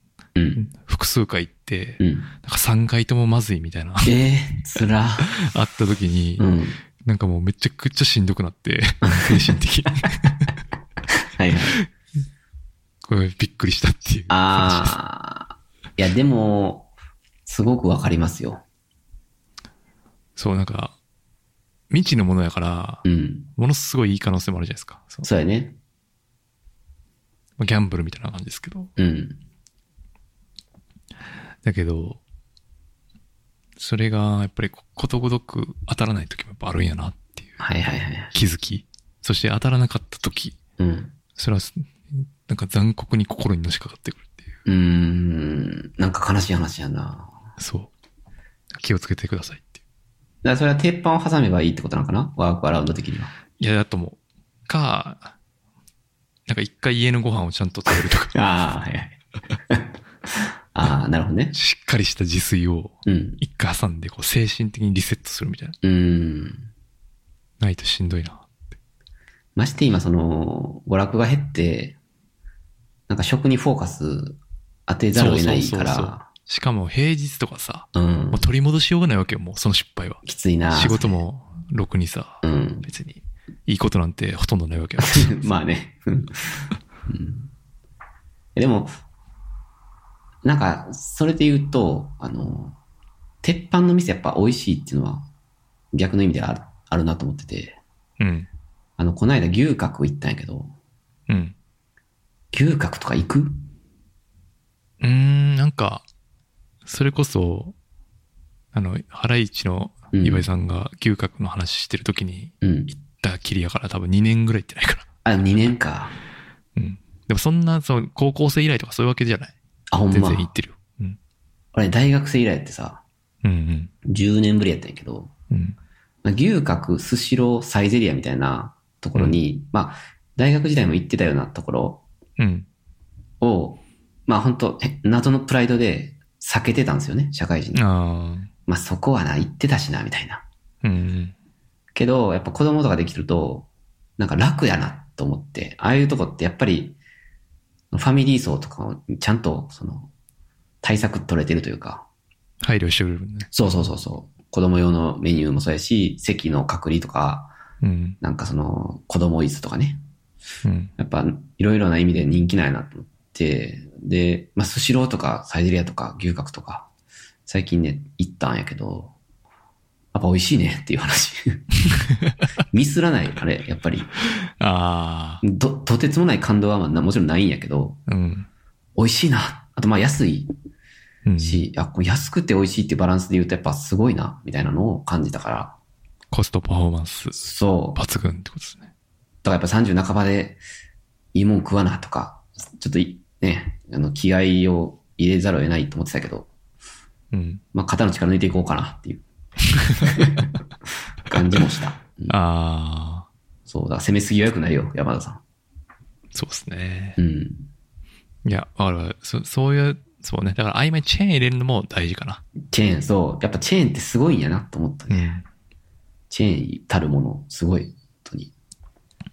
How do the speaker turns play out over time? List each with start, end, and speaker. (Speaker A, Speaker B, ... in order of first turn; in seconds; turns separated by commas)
Speaker A: 0.4-0.6, Speaker B: 0.6-4.1, Speaker A: 2.0-2.3, Speaker A: 4.0-5.3, Speaker B: 5.2-6.5, Speaker A: 6.4-6.8, Speaker B: 7.0-10.5, Speaker A: 9.1-9.5, Speaker A: 11.3-11.8, Speaker B: 13.1-14.9, Speaker A: 14.3-16.9, Speaker A: 17.5-18.6, Speaker B: 20.4-21.0, Speaker B: 21.9-23.1, Speaker A: 23.0-23.5, Speaker B: 23.6-25.3, Speaker A: 25.2-25.8, Speaker B: 27.6-28.9, Speaker A: 29.0-29.4, Speaker B: 31.6-32.2, Speaker B: 33.8-37.6, Speaker A: 37.6-38.3, Speaker B: 38.3-40.6, Speaker A: 40.8-41.1, Speaker B: 41.4-44.5, Speaker A: 44.7-47.3, Speaker B: 47.6-47.9, Speaker B: 48.7-49.8, Speaker A: 50.4-53.3, Speaker B: 53.6-55.4, Speaker B: 56.5-58.4, Speaker A: 58.3-59.2, Speaker A: 59.7-61.5, Speaker B: 61.5-65.8, Speaker A: 63.1-63.4, Speaker A: 65.8-66.7, Speaker B: 67.6-68.5, Speaker A: 69.6-72.0, Speaker A: 73.1-76.3, Speaker B: 75.1-85.5, Speaker A: 77.9-78.4, Speaker A: 80.2-81.2, Speaker A: 82.4-82.9, Speaker A: 85.0-87.5, Speaker A: 88.5-88.9, Speaker A: 90.4-92.8, Speaker A: 93.4-95.3, Speaker A: 95.9-97.8, Speaker B: 98.2-98.5, Speaker A: 99.0-100.7, Speaker B: 101.3-101.5, Speaker A: 102.5-103.6, Speaker B: 105.0-106.0, Speaker B: 106.8-107.8, Speaker B: 108.7-115.1, Speaker A: 110.1-110.5, Speaker A: 112.6-112.9, Speaker A: 115.2-116.1, Speaker B: 116.8-119.6, Speaker A: 119.9-120.5, Speaker B: 120.1-121.2, Speaker A: 121.7-123.0, Speaker B: 123.4-123.9, Speaker A: 124.0-125.3, Speaker B: 125.5-125.8, Speaker A: 126.2-132.0, Speaker B: 132.4-132.7, Speaker A: 133.4-137.8, Speaker B: 137.7-138.5, Speaker A: 138.7-140.4, Speaker B: 140.8-141.3, Speaker A: 141.9-143.7, Speaker A: 144.2-147.0, Speaker A: 147.9-150.1, Speaker A: 150.8-152.1, Speaker B: 152.6-153.5, Speaker A: 153.5-157.6, Speaker B: 157.8-158.2, Speaker A: 158.2-160.0, Speaker B: 160.6-160.9, Speaker A: 161.0-166.9, Speaker A: 167.5-169.2, Speaker A: 170.1-171.6, Speaker B: 171.9-172.4, Speaker A: 172.7-174.1, Speaker B: 174.6-175.4, Speaker A: 175.4-178.0, Speaker B: 178.1-178.5, Speaker A: 179.0-180.5, Speaker B: 181.2-181.7, Speaker A: 181.4-185.8, Speaker B: 186.3-188.9, Speaker A: 187.3-188.0, Speaker A: 189.4-190.6, Speaker A: 191.3-196.5, Speaker B: 197.3-197.6, Speaker A: 197.7-199.2, Speaker B: 199.8-200.2, Speaker A: 200.1-200.5, Speaker A: 201.3-202.3, Speaker B: 202.3-203.3, Speaker A: 203.7-205.4, Speaker B: 206.3-207.2, Speaker A: 207.2-207.7, Speaker B: 208.4-212.4, Speaker A: 212.7-215.4, Speaker B: 215.1-215.4, Speaker A: 216.3-218.5